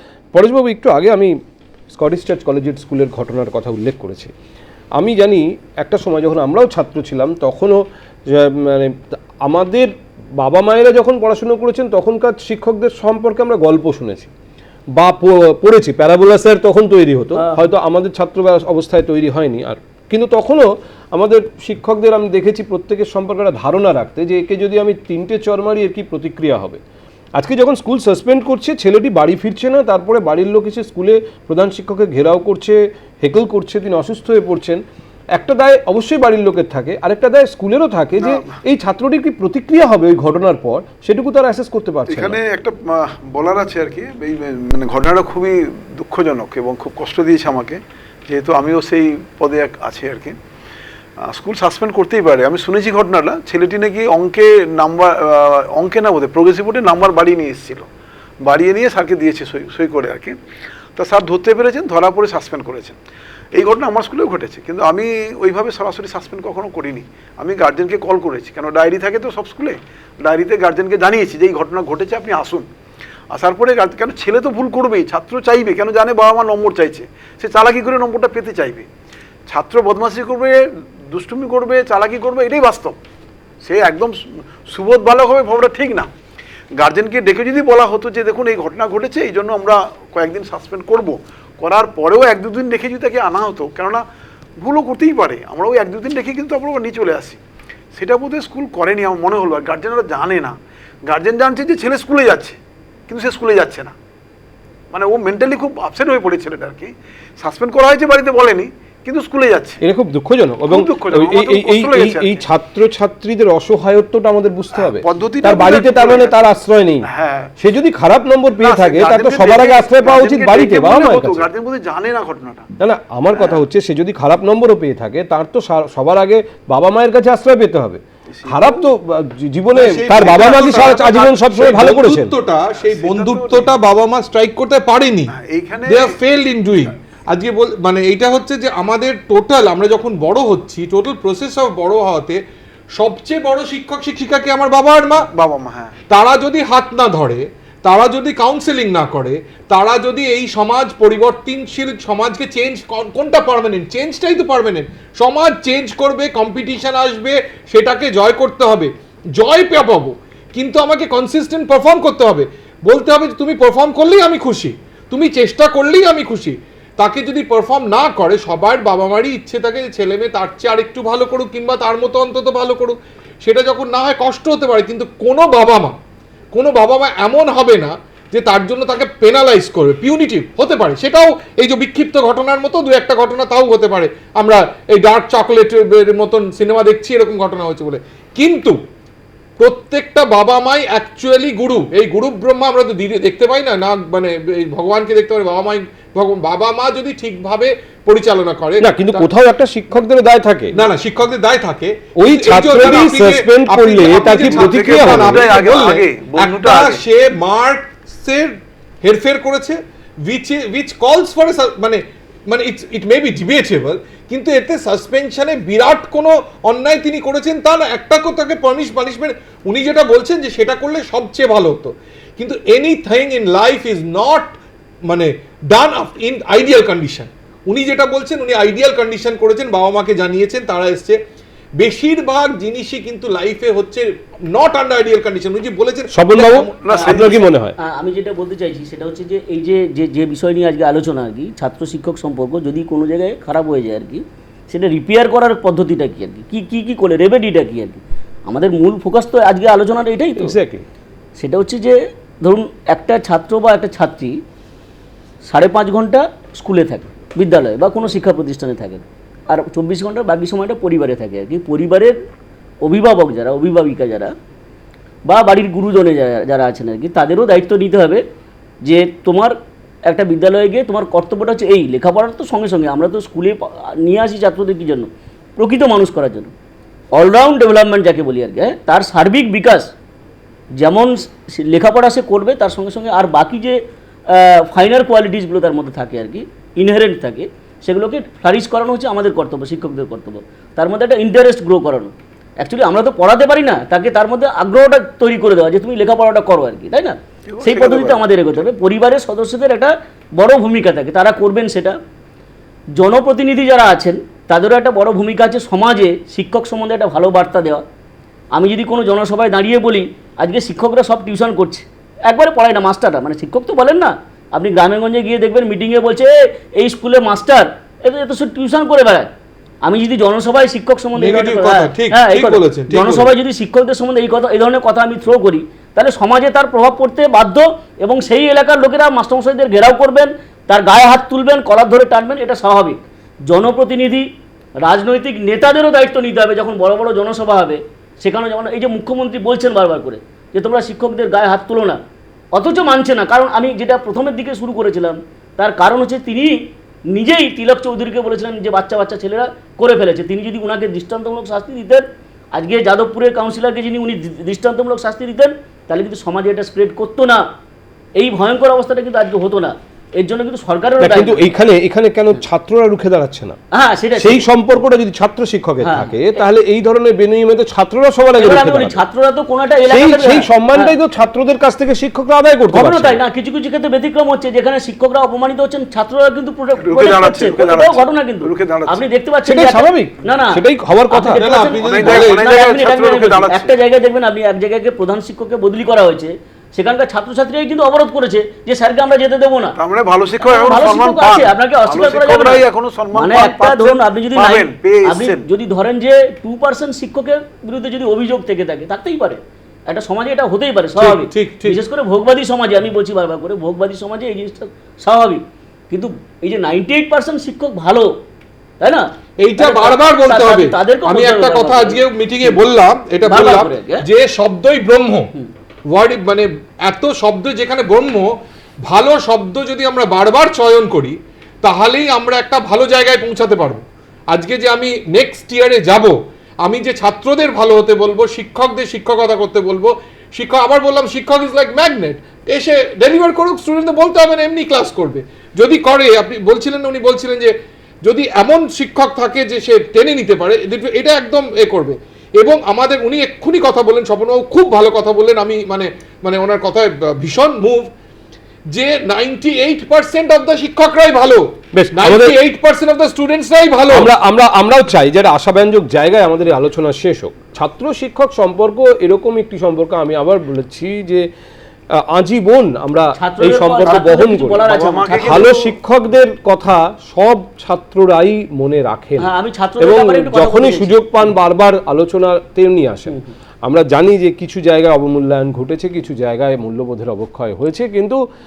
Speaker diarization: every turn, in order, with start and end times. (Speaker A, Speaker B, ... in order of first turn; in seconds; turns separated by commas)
Speaker A: 0.3-1.4, Speaker A: 1.9-4.3, Speaker A: 5.0-14.3, Speaker A: 15.0-26.8, Speaker B: 17.4-17.6, Speaker A: 27.4-34.8, Speaker A: 35.3-42.4, Speaker C: 42.1-50.4, Speaker C: 51.2-57.9, Speaker C: 58.4-60.4, Speaker C: 61.0-63.0, Speaker C: 63.6-72.7, Speaker C: 73.3-78.9, Speaker C: 79.5-83.0, Speaker C: 83.6-86.1, Speaker C: 86.8-94.0, Speaker C: 94.6-97.4, Speaker C: 98.0-100.5, Speaker C: 101.1-103.9, Speaker C: 104.9-109.8, Speaker A: 109.8-121.5, Speaker C: 110.7-112.4, Speaker C: 114.8-116.5, Speaker C: 117.0-117.5, Speaker C: 118.6-122.7, Speaker A: 122.8-132.3, Speaker C: 123.3-123.6, Speaker C: 128.3-128.8, Speaker D: 129.7-135.3, Speaker C: 130.6-130.9, Speaker C: 132.7-133.7, Speaker C: 135.3-136.2, Speaker D: 135.9-142.4, Speaker D: 143.0-145.3, Speaker C: 145.3-145.9, Speaker D: 146.1-176.0, Speaker D: 176.5-188.8, Speaker D: 189.6-199.3, Speaker A: 198.8-200.8, Speaker D: 200.8-209.8, Speaker A: 202.2-205.5, Speaker C: 202.8-203.1, Speaker C: 204.1-207.0, Speaker D: 210.3-224.5, Speaker D: 225.1-231.2, Speaker D: 231.8-237.1, Speaker A: 236.1-237.8, Speaker C: 236.8-237.5, Speaker B: 237.0-250.6, Speaker A: 250.3-250.9, Speaker B: 251.4-254.4, Speaker B: 255.5-262.2, Speaker B: 262.8-264.3, Speaker B: 265.3-268.2, Speaker B: 268.8-269.6, Speaker B: 270.1-276.5, Speaker B: 277.1-279.9, Speaker B: 280.8-302.0, Speaker C: 297.5-298.7, Speaker B: 303.0-307.8, Speaker B: 308.5-319.3, Speaker B: 319.9-334.3, Speaker D: 321.2-323.3, Speaker B: 334.8-342.0, Speaker B: 342.5-346.6, Speaker B: 347.1-357.4, Speaker B: 358.2-361.5, Speaker A: 361.0-363.6, Speaker B: 363.7-364.5, Speaker A: 364.2-369.0, Speaker B: 365.8-366.4, Speaker B: 368.4-370.9, Speaker A: 369.9-373.2, Speaker B: 372.7-389.8, Speaker C: 376.8-379.0, Speaker A: 379.4-381.7, Speaker D: 381.3-382.4, Speaker C: 381.8-383.7, Speaker C: 389.8-395.4, Speaker B: 390.4-408.1, Speaker D: 401.0-401.8, Speaker B: 408.8-409.1, Speaker D: 409.4-415.3, Speaker B: 409.6-412.6, Speaker B: 413.2-414.0, Speaker D: 415.9-418.3, Speaker D: 418.9-426.1, Speaker D: 426.6-437.5, Speaker D: 438.1-447.9, Speaker D: 448.7-454.1, Speaker A: 451.7-452.4, Speaker A: 453.9-461.3, Speaker A: 462.0-478.2, Speaker B: 463.2-465.7, Speaker C: 463.9-465.6, Speaker B: 469.2-471.0